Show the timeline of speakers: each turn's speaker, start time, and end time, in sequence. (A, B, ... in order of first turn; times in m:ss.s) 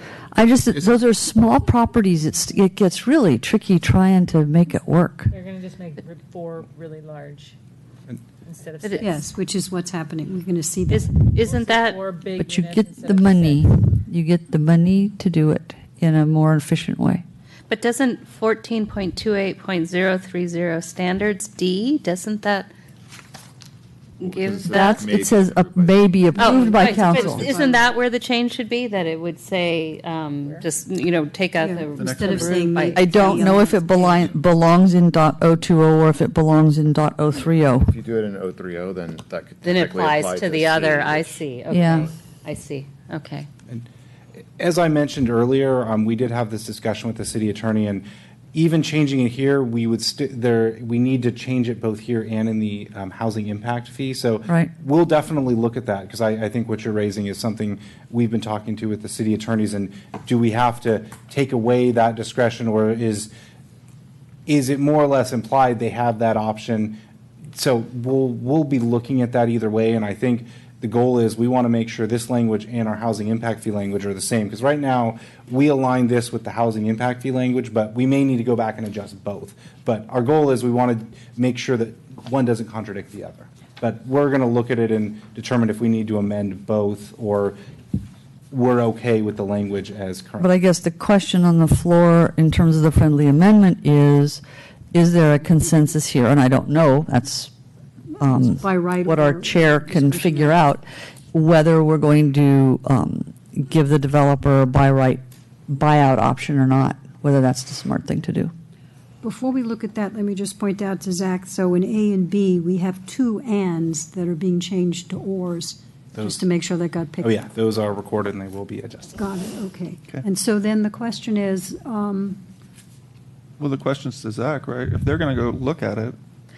0:00.3-0:05.2 A
0:03.5-0:04.2 B
0:05.3-0:07.6 C
0:08.4-0:09.2 C
0:08.8-0:09.1 D
0:09.0-0:11.1 E
0:10.9-0:12.0 D
0:11.4-0:13.7 C
0:12.4-0:17.0 A
0:13.2-0:13.6 B
0:14.1-0:15.6 B
0:16.1-0:17.2 B
0:17.7-0:22.7 D
0:24.2-0:25.2 D
0:24.2-0:27.7 F
0:24.7-0:27.4 A
0:26.4-0:33.6 D
0:26.6-0:27.2 B
0:27.0-0:27.8 C
0:31.6-0:34.1 E
0:32.0-0:32.8 G
0:33.0-0:33.7 B
0:33.0-0:37.9 A
0:37.9-0:42.1 F
0:39.6-0:43.5 D
0:41.7-0:42.1 A
0:44.6-0:48.0 B
0:48.5-1:03.2 B
0:54.4-0:54.7 A
0:57.5-0:57.8 A
1:02.6-1:03.3 A
1:04.5-1:06.9 B
1:06.4-1:06.9 A
1:07.6-1:27.5 B
1:09.6-1:12.9 A
1:14.9-1:15.7 A
1:16.3-1:16.9 A
1:28.5-1:30.5 B
1:30.4-1:34.4 A
1:34.9-1:37.5 A
1:38.1-1:40.6 E
1:38.2-1:40.8 A
1:41.3-1:42.9 B
1:41.6-1:45.2 A
1:43.8-1:45.1 B
1:45.7-1:47.5 B
1:46.0-1:48.5 A
1:49.2-1:57.4 E
1:57.2-1:59.0 B
1:59.1-2:02.4 E
2:03.6-2:06.2 G